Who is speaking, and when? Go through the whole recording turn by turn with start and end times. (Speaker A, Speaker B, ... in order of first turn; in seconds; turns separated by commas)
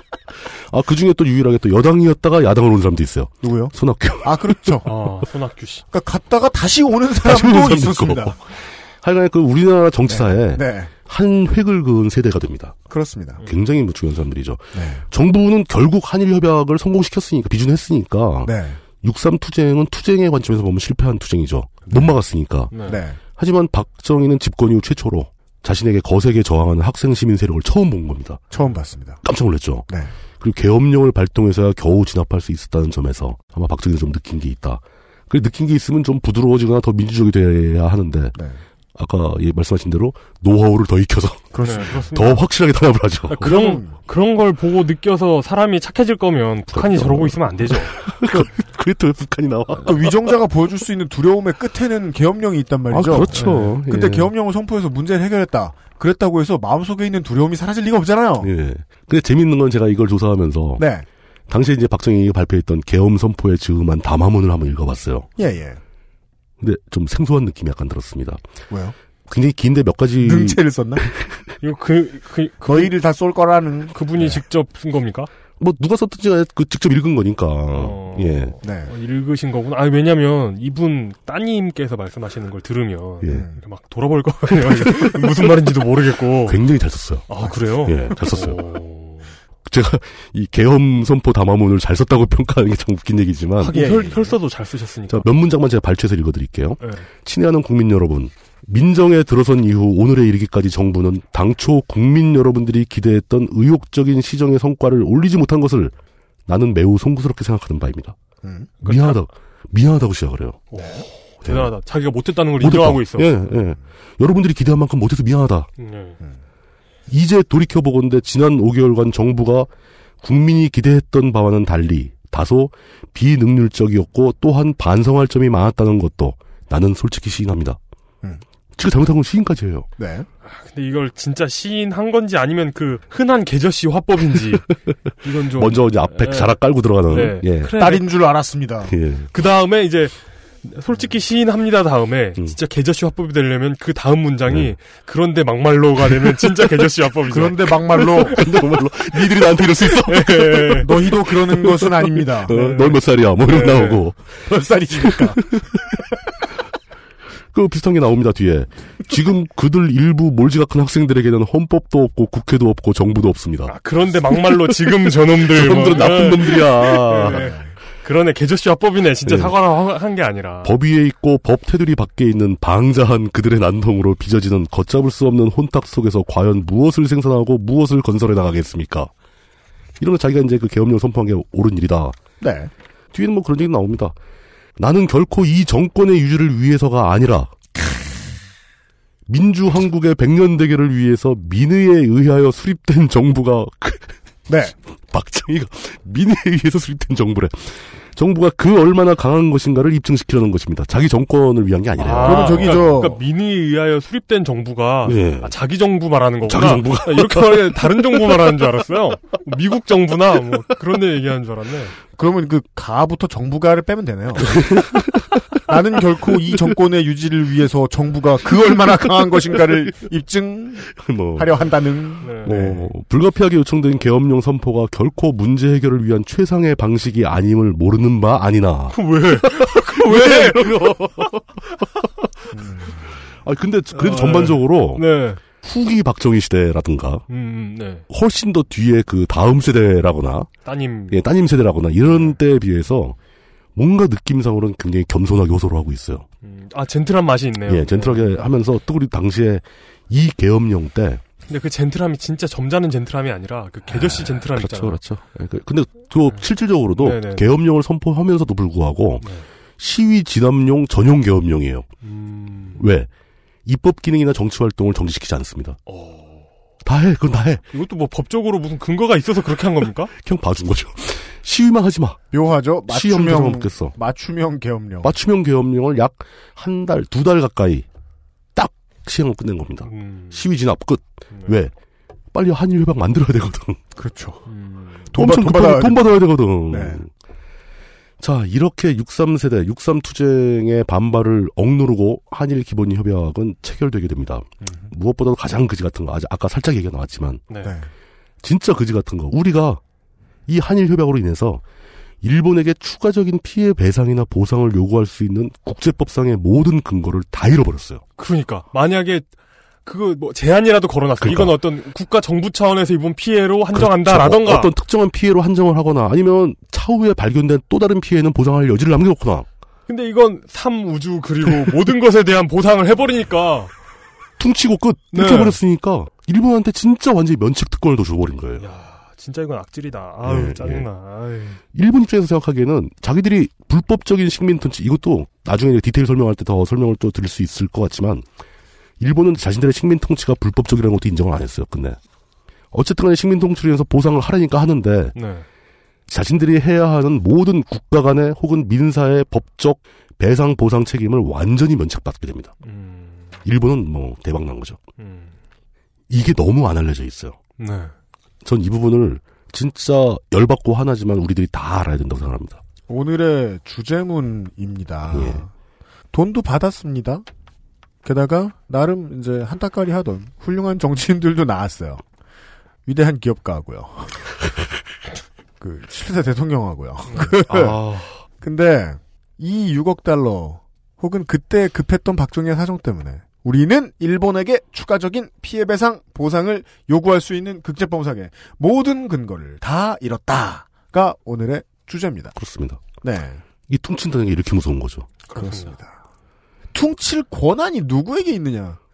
Speaker A: 0.4-4.8, Speaker B: 3.4-4.9, Speaker C: 4.8-5.8, Speaker B: 5.9-8.4, Speaker A: 7.2-12.8, Speaker B: 10.1-10.9, Speaker B: 12.9-13.4, Speaker A: 13.4-28.4, Speaker B: 14.7-15.1, Speaker B: 18.4-18.8, Speaker B: 21.9-22.1, Speaker C: 22.7-23.0, Speaker B: 22.9-23.2, Speaker B: 28.5-29.2, Speaker A: 29.2-29.9, Speaker A: 30.4-38.4, Speaker A: 39.0-43.5, Speaker B: 41.5-42.1, Speaker C: 41.6-42.4, Speaker C: 43.3-48.0, Speaker B: 43.4-43.9, Speaker A: 46.7-50.2, Speaker B: 49.8-58.5, Speaker A: 52.9-54.3, Speaker C: 53.3-53.8, Speaker A: 58.4-60.8, Speaker B: 60.8-61.0, Speaker A: 61.5-65.3, Speaker B: 65.4-65.8, Speaker A: 66.6-68.4, Speaker B: 68.7-68.9, Speaker A: 69.3-71.5, Speaker B: 70.2-71.0, Speaker C: 71.6-72.9, Speaker B: 72.6-74.4, Speaker C: 73.9-75.3, Speaker A: 75.6-78.5, Speaker C: 77.7-86.6, Speaker B: 78.6-78.9, Speaker B: 83.2-83.6, Speaker A: 84.5-85.7, Speaker A: 86.4-87.3, Speaker C: 87.3-89.3, Speaker A: 87.8-88.6, Speaker A: 89.7-94.1, Speaker C: 93.6-95.2, Speaker B: 93.7-94.3, Speaker A: 95.1-105.9, Speaker A: 106.5-108.2, Speaker B: 108.4-108.7, Speaker C: 108.8-109.2, Speaker A: 108.8-110.7, Speaker C: 110.7-113.3, Speaker A: 111.4-111.7, Speaker A: 112.6-115.7, Speaker C: 115.8-116.2, Speaker A: 117.1-119.7, Speaker A: 120.2-127.8, Speaker A: 128.8-129.9, Speaker B: 130.0-130.3, Speaker C: 130.4-134.7, Speaker C: 135.2-136.5, Speaker A: 135.5-137.7, Speaker C: 137.1-138.1, Speaker B: 137.7-138.9, Speaker A: 138.9-139.3, Speaker C: 139.3-148.5, Speaker B: 147.3-148.4, Speaker A: 148.1-154.2, Speaker C: 150.0-150.9, Speaker B: 150.8-152.6, Speaker C: 152.5-154.0, Speaker B: 154.4-155.4, Speaker A: 155.0-155.8, Speaker A: 157.5-163.7, Speaker C: 163.7-170.8, Speaker A: 164.3-167.5, Speaker B: 167.2-167.7, Speaker A: 169.2-169.6, Speaker A: 170.6-179.1, Speaker A: 180.0-182.2, Speaker B: 182.4-182.7, Speaker A: 183.1-184.1, Speaker A: 184.8-187.5, Speaker A: 189.3-194.1, Speaker B: 194.5-194.7, Speaker A: 195.1-202.8, Speaker C: 202.0-211.9, Speaker B: 202.2-203.2, Speaker A: 205.0-205.5, Speaker A: 206.4-208.2, Speaker B: 212.2-214.6, Speaker A: 214.4-215.4, Speaker B: 215.7-222.9, Speaker A: 220.9-221.7, Speaker C: 222.2-222.6, Speaker A: 222.4-231.4, Speaker C: 228.9-231.2, Speaker B: 232.5-233.0, Speaker A: 233.4-237.2, Speaker C: 233.9-235.4, Speaker C: 237.3-238.0, Speaker A: 238.1-240.5, Speaker C: 240.6-241.2, Speaker A: 241.1-243.2, Speaker A: 243.8-246.2, Speaker C: 246.4-248.5, Speaker A: 247.7-251.2, Speaker C: 251.5-255.0, Speaker A: 253.9-259.2, Speaker C: 257.0-257.5, Speaker A: 259.8-261.9, Speaker C: 262.0-262.8, Speaker A: 262.8-263.1, Speaker A: 263.6-265.8, Speaker C: 265.9-266.5, Speaker A: 266.8-267.6, Speaker C: 267.7-270.1, Speaker A: 270.2-272.2, Speaker B: 272.3-275.1, Speaker A: 272.9-273.9, Speaker A: 275.0-277.8, Speaker A: 278.6-281.7, Speaker C: 279.8-280.4, Speaker A: 282.3-283.8, Speaker B: 284.0-284.4, Speaker C: 284.5-285.1, Speaker B: 285.1-287.0, Speaker A: 285.1-287.1, Speaker A: 288.2-297.4, Speaker B: 294.6-294.9, Speaker B: 297.6-297.9, Speaker A: 298.4-299.8, Speaker A: 300.5-301.6, Speaker A: 302.2-308.0, Speaker C: 308.2-309.3, Speaker C: 309.9-314.7, Speaker A: 311.2-311.6, Speaker A: 313.7-319.4, Speaker C: 319.9-323.7, Speaker A: 324.4-328.6, Speaker C: 325.1-325.6, Speaker C: 328.6-331.6, Speaker A: 330.2-330.9, Speaker A: 331.7-338.2, Speaker A: 339.0-342.0, Speaker A: 342.7-345.1, Speaker C: 345.1-345.4, Speaker A: 346.1-352.5, Speaker C: 352.6-353.4, Speaker A: 353.4-354.8, Speaker C: 355.0-355.3, Speaker A: 356.1-357.4, Speaker C: 357.6-357.9, Speaker A: 358.4-362.6, Speaker B: 362.9-365.5, Speaker A: 365.1-365.4, Speaker B: 366.1-367.2, Speaker B: 368.0-372.0, Speaker B: 372.9-374.5, Speaker B: 375.6-377.8, Speaker A: 377.5-378.1, Speaker B: 378.4-392.4, Speaker A: 392.4-392.8, Speaker B: 393.0-393.4, Speaker A: 393.7-395.1, Speaker C: 395.3-395.7, Speaker B: 395.3-396.0, Speaker B: 396.7-398.8